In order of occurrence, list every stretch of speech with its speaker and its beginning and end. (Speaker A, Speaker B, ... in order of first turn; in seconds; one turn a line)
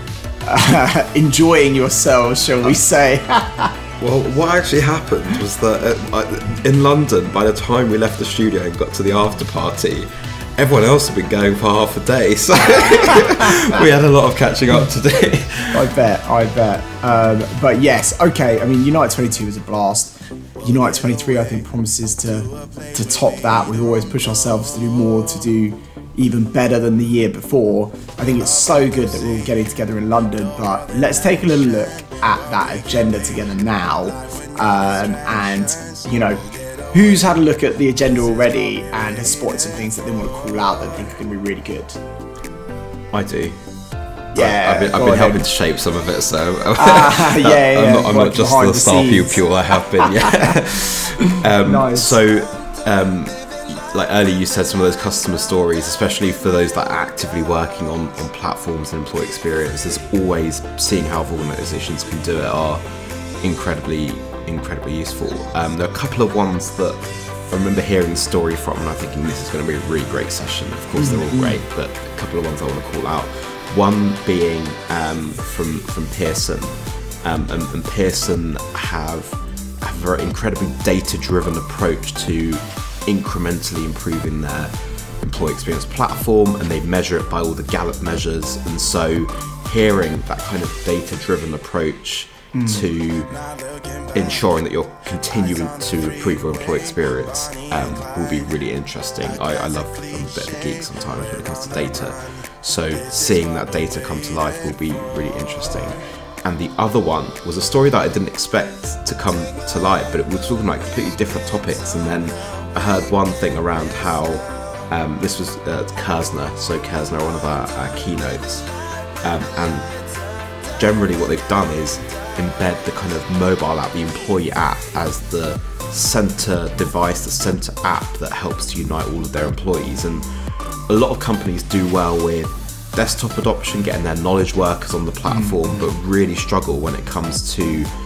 Speaker A: 0.4-3.8
Speaker B: 4.0-15.9
Speaker A: 12.8-13.3
Speaker A: 15.7-42.0
Speaker B: 43.1-43.6
Speaker B: 44.3-62.8
Speaker A: 44.3-45.5
Speaker A: 46.8-49.4
Speaker A: 51.5-52.1
Speaker B: 63.4-93.3
Speaker A: 71.0-71.6
Speaker A: 92.5-92.9
Speaker B: 94.1-118.7
Speaker B: 119.2-119.9
Speaker B: 120.8-130.3
Speaker B: 130.9-137.9
Speaker A: 135.3-135.8